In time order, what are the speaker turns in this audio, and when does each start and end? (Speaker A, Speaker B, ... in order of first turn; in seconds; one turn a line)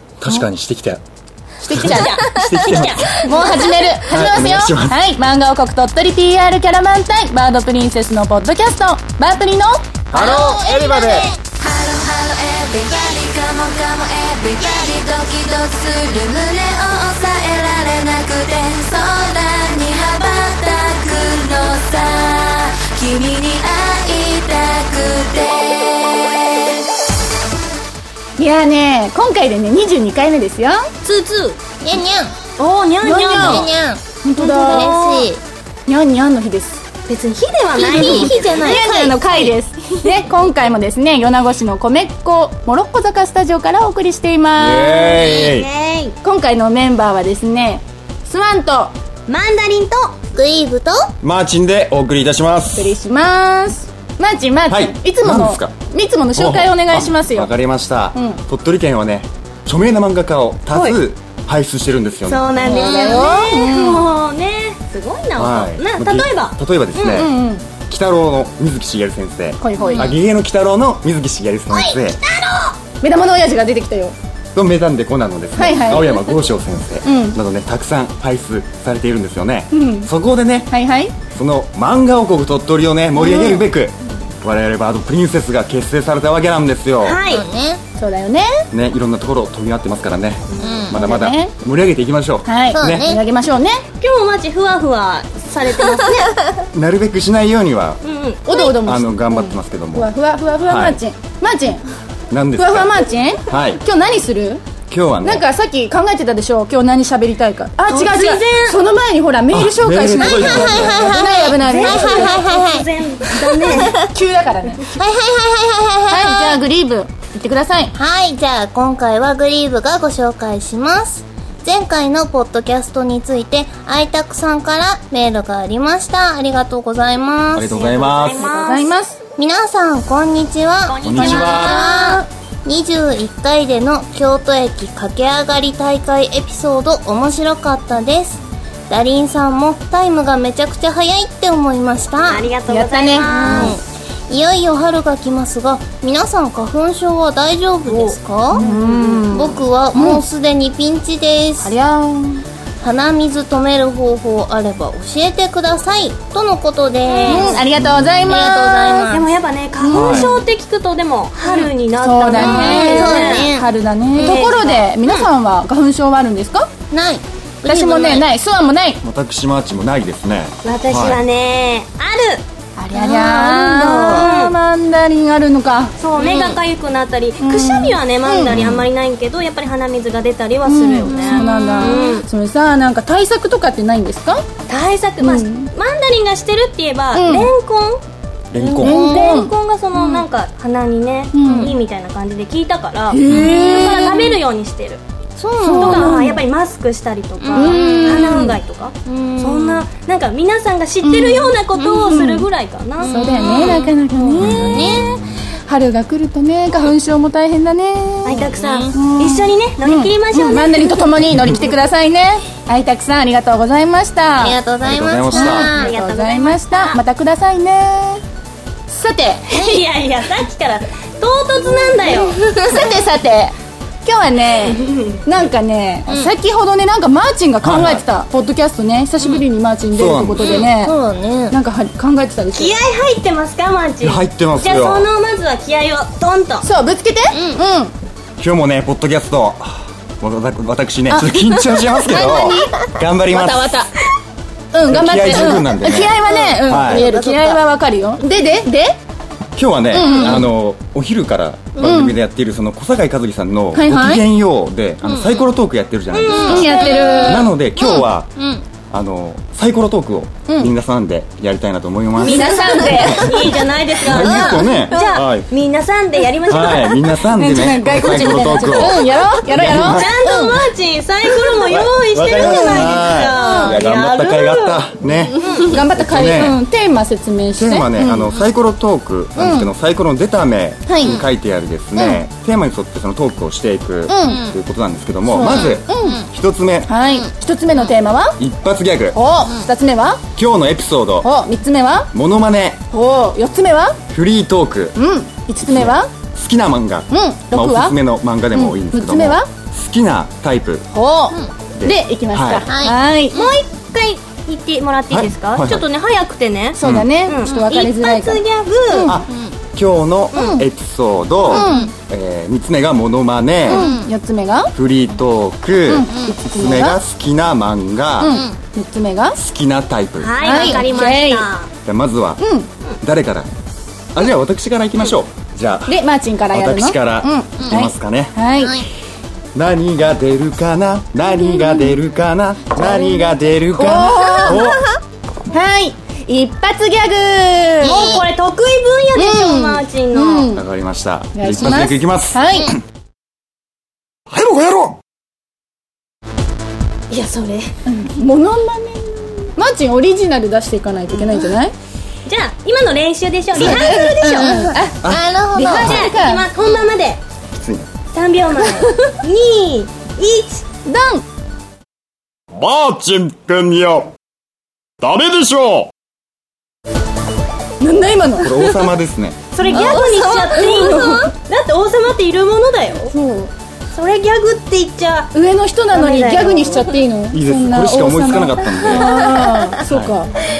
Speaker A: 0.2-1.0
Speaker B: 1.6-2.2
Speaker A: 1.7-3.0
Speaker C: 1.7-3.4
Speaker B: 3.2-9.8
Speaker A: 4.0-5.0
Speaker A: 10.1-11.3
Speaker D: 10.1-11.5
Speaker E: 11.5-26.8
Speaker B: 28.4-30.9
Speaker C: 31.0-31.6
Speaker D: 31.8-32.4
Speaker C: 32.6-33.7
Speaker B: 33.0-33.7
Speaker D: 33.2-35.4
Speaker B: 34.2-34.9
Speaker C: 34.4-35.3
Speaker B: 35.9-36.8
Speaker C: 37.1-38.8
Speaker D: 37.7-39.5
Speaker B: 37.9-45.2
Speaker A: 44.5-45.7
Speaker C: 45.1-46.1
Speaker B: 46.2-48.9
Speaker C: 49.3-50.1
Speaker D: 50.3-51.0
Speaker A: 51.2-52.9
Speaker B: 52.8-57.5
Speaker A: 54.7-55.7
Speaker A: 56.4-62.7
Speaker B: 58.1-58.4
Speaker C: 62.2-67.3
Speaker B: 62.6-64.1
Speaker D: 62.7-63.3
Speaker A: 65.3-67.3
Speaker B: 67.1-67.7
Speaker A: 67.9-72.2
Speaker B: 69.6-70.1
Speaker C: 69.8-70.1
Speaker D: 71.7-72.7
Speaker B: 73.0-74.1
Speaker A: 74.5-80.7
Speaker B: 75.5-76.1
Speaker B: 77.0-77.4
Speaker B: 79.7-80.1
Speaker B: 80.7-81.1
Speaker A: 81.3-87.2
Speaker B: 83.1-83.7
Speaker C: 87.0-87.4
Speaker D: 87.2-87.8
Speaker B: 88.0-88.6
Speaker A: 88.7-93.1
Speaker C: 90.5-90.9
Speaker D: 90.6-91.0
Speaker B: 90.9-91.5
Speaker B: 92.4-93.8
Speaker D: 92.7-93.2
Speaker C: 94.0-96.3
Speaker D: 96.0-96.3
Speaker A: 96.7-98.0
Speaker C: 98.0-98.7
Speaker B: 98.5-101.8
Speaker A: 98.7-100.1
Speaker A: 100.6-101.0
Speaker A: 102.3-102.9
Speaker B: 102.5-104.6
Speaker A: 103.5-103.8
Speaker A: 104.9-105.4
Speaker B: 105.2-112.5
Speaker C: 107.9-108.8
Speaker A: 109.5-111.1
Speaker D: 110.2-112.9
Speaker C: 111.2-114.0
Speaker D: 113.6-114.0
Speaker B: 113.7-114.9
Speaker D: 114.9-116.6
Speaker B: 116.1-117.9
Speaker D: 117.9-127.8
Speaker A: 127.5-128.5
Speaker C: 127.7-128.9
Speaker B: 128.4-129.2
Speaker D: 129.4-142.5
Speaker C: 130.8-131.8
Speaker A: 131.0-131.8
Speaker B: 131.6-132.2
Speaker C: 142.3-143.8
Speaker B: 142.7-143.7
Speaker D: 143.2-148.6
Speaker C: 147.9-149.3
Speaker B: 148.5-150.2
Speaker D: 149.3-151.7
Speaker B: 151.6-152.4
Speaker D: 152.8-157.6
Speaker C: 157.1-157.6
Speaker B: 157.2-159.1
Speaker A: 157.8-158.2
Speaker D: 158.2-159.3
Speaker C: 159.0-163.5
Speaker B: 159.8-160.4
Speaker A: 159.9-160.3
Speaker B: 162.0-166.7
Speaker D: 162.3-164.4
Speaker C: 164.1-165.3
Speaker D: 166.9-168.2
Speaker B: 167.7-169.0
Speaker A: 169.0-171.2
Speaker C: 170.6-172.4
Speaker B: 172.8-175.9
Speaker C: 172.9-174.6
Speaker D: 173.4-174.3
Speaker C: 176.0-182.3
Speaker D: 176.2-176.6
Speaker B: 177.4-178.6
Speaker A: 178.5-178.9
Speaker B: 180.6-184.4
Speaker D: 181.1-182.2
Speaker C: 184.7-188.0
Speaker B: 185.2-185.7
Speaker B: 187.1-187.5
Speaker A: 188.5-189.0
Speaker D: 188.5-189.4
Speaker B: 188.8-189.5
Speaker C: 188.8-195.0
Speaker D: 189.9-190.2
Speaker B: 191.3-191.7
Speaker D: 191.4-191.7
Speaker B: 193.1-194.2
Speaker A: 193.3-193.6
Speaker D: 193.6-194.3
Speaker D: 195.4-196.3
Speaker B: 195.6-196.4
Speaker C: 195.7-204.8
Speaker D: 197.4-199.8
Speaker B: 197.6-198.5
Speaker B: 201.0-201.6
Speaker D: 201.7-202.4
Speaker D: 203.0-205.2
Speaker B: 203.0-205.0
Speaker B: 205.7-214.6
Speaker C: 208.2-211.0
Speaker D: 208.4-208.9
Speaker D: 214.4-215.9
Speaker A: 214.8-215.7
Speaker B: 215.3-218.2
Speaker C: 215.4-217.0
Speaker B: 218.9-219.8
Speaker C: 219.5-222.4
Speaker B: 222.1-230.9
Speaker D: 222.4-222.8
Speaker C: 224.6-225.2
Speaker D: 226.1-226.3
Speaker A: 227.6-228.0
Speaker A: 229.9-230.6
Speaker C: 230.4-230.7
Speaker D: 230.4-231.6
Speaker B: 231.5-232.7
Speaker C: 232.5-236.7
Speaker A: 234.0-235.1
Speaker B: 236.6-237.9
Speaker D: 237.3-237.6
Speaker A: 238.4-243.7
Speaker B: 241.1-243.9
Speaker B: 244.7-248.9
Speaker A: 244.9-247.1
Speaker D: 246.2-247.6
Speaker A: 249.5-258.3
Speaker B: 249.9-250.5
Speaker D: 250.0-250.4
Speaker B: 251.8-252.2
Speaker B: 253.7-254.2
Speaker D: 255.0-255.4
Speaker C: 256.1-257.5
Speaker D: 256.3-258.6
Speaker B: 256.4-257.5
Speaker A: 258.9-265.5
Speaker B: 260.5-260.7
Speaker C: 262.2-267.2
Speaker B: 262.2-263.4
Speaker D: 262.5-262.8
Speaker D: 264.2-264.6
Speaker A: 266.4-270.1
Speaker B: 267.3-270.6
Speaker C: 269.7-274.8
Speaker A: 271.7-276.6
Speaker B: 272.4-273.8
Speaker C: 275.4-275.7
Speaker B: 275.5-278.3
Speaker A: 277.6-286.9
Speaker B: 279.4-279.7
Speaker B: 280.9-281.2
Speaker B: 281.9-282.2
Speaker B: 284.1-284.4
Speaker B: 285.2-286.2
Speaker D: 285.5-286.2
Speaker B: 286.9-288.4
Speaker A: 288.4-289.2
Speaker B: 289.1-290.2
Speaker A: 290.3-291.3
Speaker B: 291.2-292.1
Speaker A: 292.1-292.8
Speaker B: 292.9-294.0
Speaker A: 294.1-295.0
Speaker B: 294.9-296.1
Speaker A: 295.6-300.8
Speaker B: 297.1-297.9
Speaker B: 298.5-299.5
Speaker B: 300.9-303.5
Speaker A: 301.8-302.7
Speaker D: 302.7-302.9
Speaker C: 303.3-309.1
Speaker A: 305.1-305.9
Speaker B: 306.8-309.2
Speaker A: 306.8-307.1
Speaker A: 309.0-313.9
Speaker C: 310.3-310.6
Speaker B: 310.4-310.6
Speaker B: 311.5-311.9
Speaker D: 311.5-311.9
Speaker B: 313.7-314.7
Speaker D: 313.7-314.1
Speaker A: 314.7-318.4
Speaker B: 315.9-317.0
Speaker B: 318.2-319.4
Speaker D: 318.2-318.6
Speaker A: 319.4-320.8
Speaker C: 320.2-321.7
Speaker B: 320.4-321.5
Speaker A: 321.9-322.4
Speaker B: 322.4-322.7
Speaker A: 323.0-323.5
Speaker A: 324.1-328.4
Speaker B: 325.9-328.8
Speaker D: 328.6-328.9
Speaker A: 329.5-334.8
Speaker B: 332.7-334.6
Speaker D: 334.4-334.8
Speaker B: 335.5-338.2
Speaker C: 337.8-340.5
Speaker D: 337.9-338.2
Speaker B: 339.1-340.6
Speaker A: 340.5-342.4
Speaker B: 341.3-342.7
Speaker A: 344.3-345.0
Speaker C: 347.1-347.7
Speaker B: 347.9-351.7
Speaker C: 352.2-354.8
Speaker A: 353.6-353.8
Speaker B: 353.6-355.0
Speaker D: 353.7-355.9
Speaker B: 355.5-356.4
Speaker C: 355.6-357.2
Speaker A: 355.8-356.1
Speaker A: 357.6-357.9
Speaker C: 358.1-360.6
Speaker B: 360.8-361.2
Speaker A: 362.5-364.1
Speaker A: 365.0-365.9
Speaker B: 367.8-368.8
Speaker A: 368.4-369.5
Speaker C: 369.5-373.1
Speaker B: 369.6-371.2
Speaker D: 369.7-371.3
Speaker B: 373.1-373.5
Speaker C: 373.9-375.3
Speaker B: 375.3-380.3
Speaker C: 375.9-376.9
Speaker A: 377.3-379.1
Speaker D: 379.1-379.8
Speaker A: 379.8-380.2